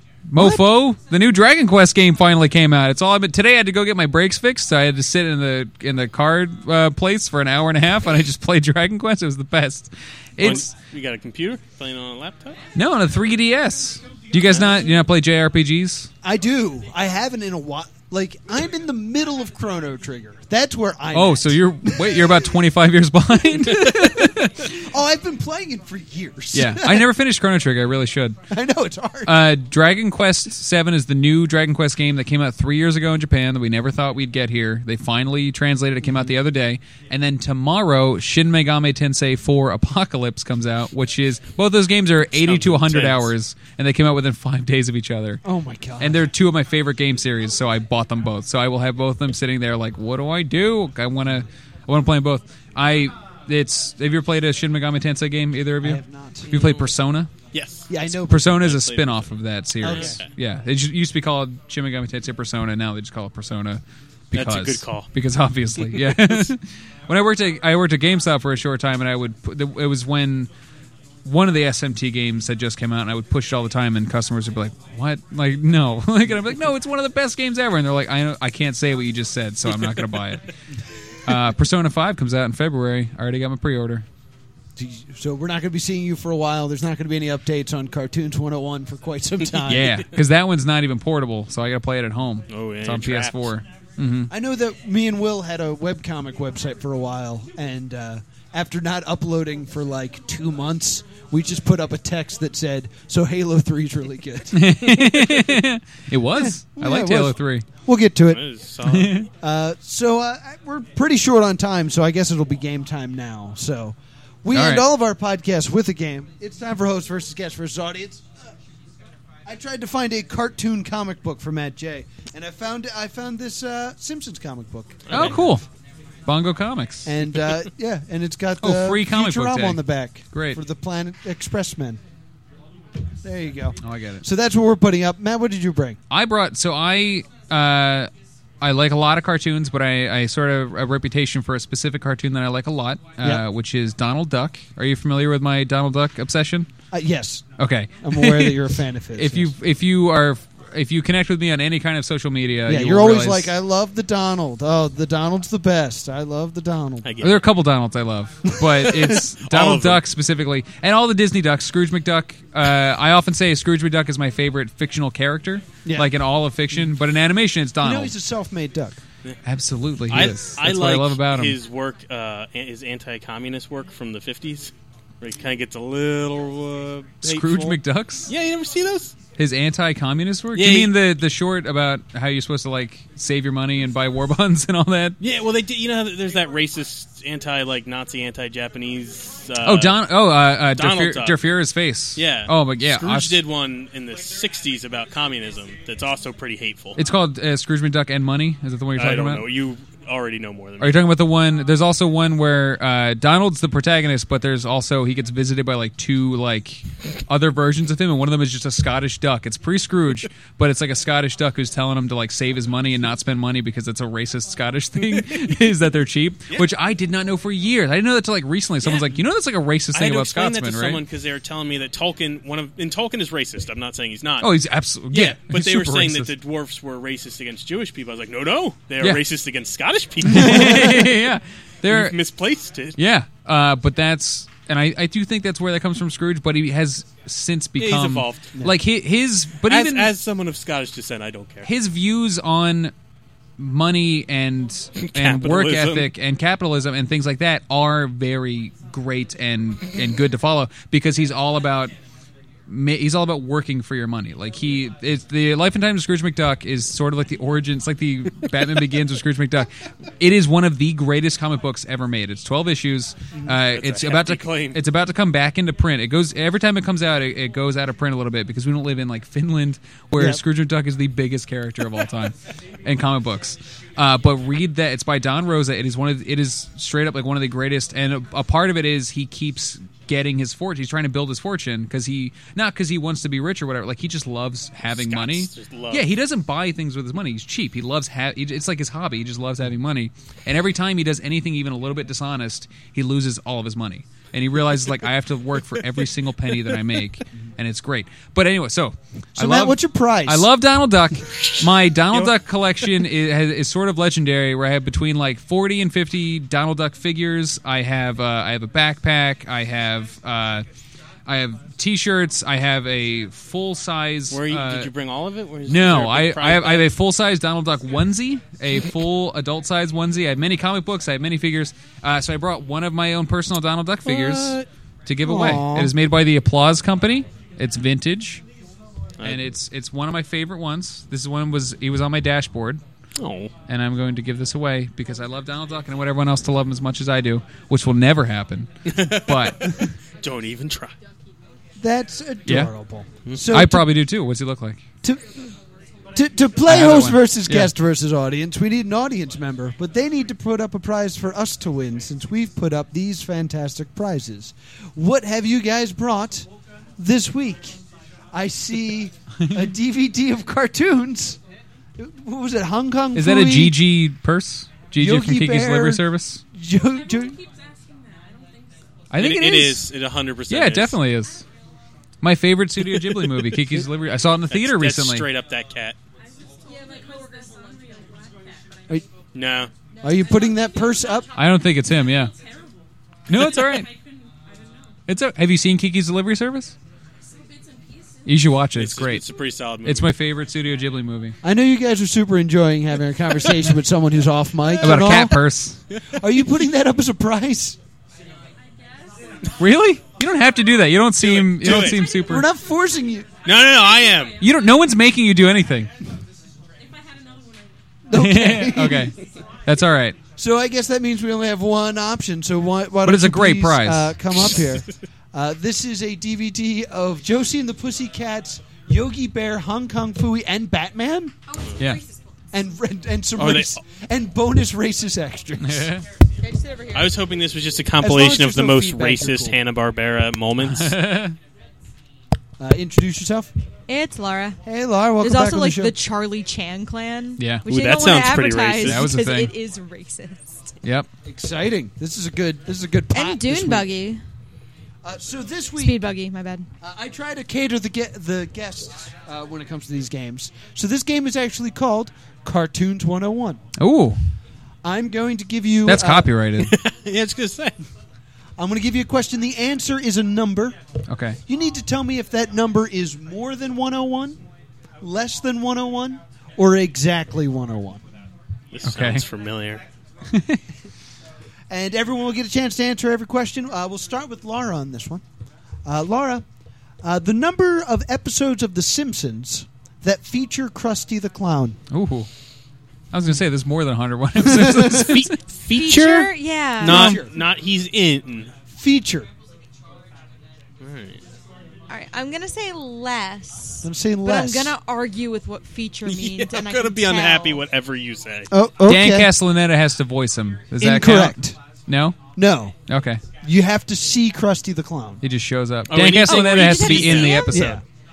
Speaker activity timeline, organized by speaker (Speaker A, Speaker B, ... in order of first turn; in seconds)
Speaker A: 0.3-10.7, 12.8-16.1, 21.1-24.8, 26.5-28.4, 29.3-45.4, 46.0-57.3, 58.1-70.5, 71.2-80.5, 81.2-84.1, 89.7-94.3, 104.5-107.7, 108.8-109.3, 114.5-114.9, 125.1-125.7, 126.3-127.2, 128.6-130.6, 133.8-134.2, 136.1-146.7, 147.6-148.6, 149.2-153.6, 157.2-168.2, 169.4-171.6, 177.2-178.3, 179.4-185.2, 189.6-193.4, 197.0-199.4, 200.8-221.0, 224.4-226.3, 230.2-232.2, 233.0-240.1, 241.7-242.9, 243.6-251.9, 252.7-310.7, 311.3-314.9, 315.7-328.4, 329.2-332.8, 333.7-339.9, 342.5-342.7, 343.5-344.8, 346.6-347.7, 363.1-366.4, 369.1-369.9, 370.5-371.4, 372.2-375.3, 381.4-382.3, 383.3-383.9, 385.1-386.8, 388.2-389.3, 389.8-391.4, 394.8-395.8, 399.6-402.5, 404.4-405.9, 408.1-410.2, 413.1-414.2, 425.6-426.1, 430.6-431.4, 437.4-437.7, 438.8-439.5, 440.8-441.1, 453.8-454.2, 455.9-456.7, 461.1-461.4, 468.8-469.3, 470.3-470.6, 481.9-482.3, 483.1-485.4, 498.8-502.2, 502.9-503.2, 505.2-507.8
Speaker B: 0.4-0.6, 16.2-22.4, 24.7-27.1, 28.5-29.6, 45.4-46.2, 55.8-56.5, 57.9-58.6, 59.8-60.2, 84.8-90.0, 94.3-105.5, 106.3-108.5, 109.4-118.2, 119.5-125.5, 127.0-132.0, 133.2-136.0, 146.9-147.5, 148.0-149.5, 152.7-157.1, 158.5-158.8, 165.8-166.1, 167.8-169.0, 299.4-300.5, 325.2-325.9, 341.8-343.9, 346.1-357.8, 358.3-361.4, 362.0-363.8, 365.0-367.4, 380.0-381.3, 391.4-395.4, 396.1-397.8, 402.2-403.3, 408.1-409.1, 410.4-421.3, 422.5-426.0, 428.0-429.6, 432.6-433.5, 434.6-435.9, 441.2-443.9, 445.0-446.0, 446.8-453.6, 454.8-456.3, 458.6-460.8, 461.5-464.4, 465.0-468.0, 471.7-475.2, 475.9-476.4, 477.0-481.8, 484.4-485.0, 486.8-487.4, 488.7-489.3, 493.8-494.7, 498.5-499.3, 500.8-501.6, 502.4-502.8, 503.4-505.2, 507.5-507.8
Speaker C: 10.4-12.6, 14.5-14.8, 42.4-43.3, 56.5-56.9, 57.5-59.3, 59.9-60.3, 64.3-65.1, 65.9-66.4, 92.5-93.5, 108.3-109.3, 125.1-125.4, 157.0-157.5, 159.4-160.0, 170.1-179.2, 180.6-180.9, 185.2-190.0, 190.7-191.4, 192.2-197.0, 199.0-201.1, 218.8-219.2, 219.9-224.5, 225.1-231.2, 231.9-233.0, 237.8-238.6, 239.7-241.7, 245.0-246.1, 263.6-264.8, 284.9-286.1, 301.4-302.3, 314.3-316.9, 324.1-324.7, 333.2-333.5, 338.9-340.9, 369.2-371.0, 373.0-373.6, 374.5-376.0, 379.3-379.7, 388.8-390.1, 401.2-402.1, 403.4-404.4, 423.4-423.8, 426.9-431.0, 437.7-439.1, 456.6-457.8, 468.7-469.8, 484.9-488.6, 490.8-491.2, 496.1-498.5, 505.9-507.5
Speaker D: 366.9-368.9, 376.2-378.8, 379.9-385.0, 387.2-388.3, 398.6-399.6, 401.8-402.3, 403.9-405.0, 406.8-407.8, 421.5-422.3
Speaker E: 426.4-427.1, 433.9-434.6, 435.2-440.7, 443.1-444.2, 445.8-446.7, 485.7-487.2, 491.9-497.6, 506.2-507.7